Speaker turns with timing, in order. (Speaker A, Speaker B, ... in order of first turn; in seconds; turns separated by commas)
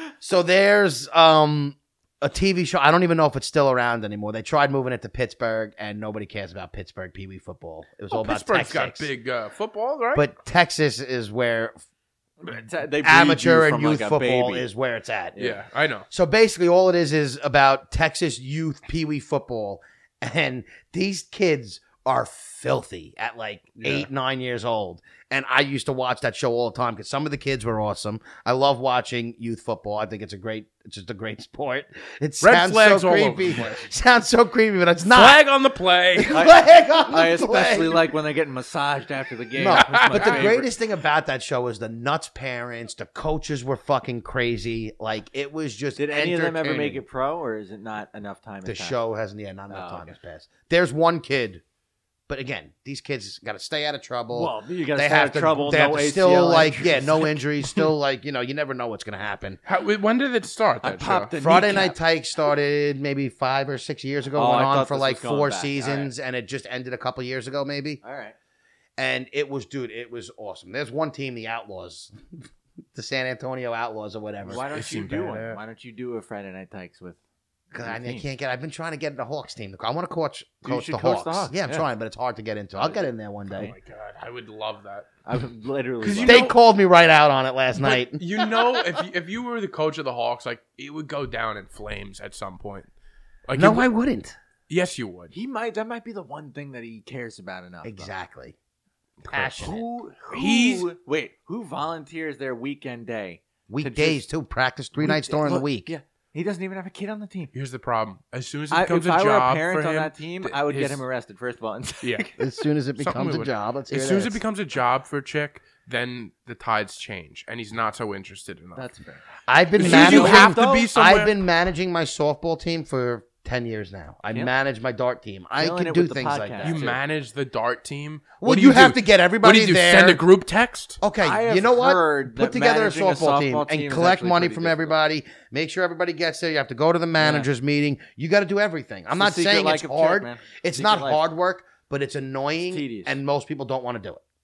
Speaker A: 0.2-9.1, Speaker B: 8.1-10.2, Speaker A: 10.1-11.8, Speaker C: 12.4-14.7, Speaker A: 13.0-15.4, Speaker B: 15.4-16.1, Speaker A: 16.1-35.4, Speaker B: 23.8-24.1, Speaker B: 32.4-33.8, Speaker B: 35.0-36.4, Speaker A: 36.1-38.1, Speaker C: 36.3-40.7, Speaker A: 39.5-47.0, Speaker B: 39.8-40.5, Speaker C: 46.0-49.0, Speaker A: 48.6-51.6, Speaker C: 49.7-50.1, Speaker A: 52.3-59.6, Speaker C: 54.3-57.8, Speaker B: 59.6-61.3, Speaker C: 60.8-62.0, Speaker A: 61.4-68.0, Speaker C: 64.3-66.1, Speaker C: 68.0-68.3, Speaker A: 69.0-74.6, Speaker C: 74.4-77.2, Speaker B: 74.6-75.6, Speaker A: 77.7-83.7, Speaker C: 77.8-78.2, Speaker C: 80.6-81.8, Speaker C: 82.8-83.0, Speaker B: 83.5-85.1, Speaker C: 85.2-86.5, Speaker B: 86.0-86.5, Speaker A: 86.2-88.2, Speaker B: 87.8-92.9, Speaker B: 93.5-93.8, Speaker A: 93.5-94.3, Speaker B: 94.7-95.3, Speaker C: 95.3-98.1, Speaker A: 97.8-98.5, Speaker B: 99.2-99.7, Speaker A: 99.3-99.8, Speaker C: 99.6-104.2, Speaker B: 100.3-100.9, Speaker A: 103.7-105.9, Speaker C: 105.0-107.5, Speaker B: 107.5-111.0, Speaker C: 108.7-112.4, Speaker B: 112.0-112.3, Speaker A: 112.4-114.4, Speaker B: 113.0-118.9, Speaker C: 118.8-120.9, Speaker A: 119.5-126.9, Speaker B: 119.8-121.3, Speaker C: 125.6-127.0, Speaker B: 126.6-131.0, Speaker A: 128.4-130.2, Speaker A: 131.0-144.2, Speaker C: 131.2-134.9, Speaker C: 137.2-137.5, Speaker C: 139.1-141.2, Speaker C: 142.7-143.2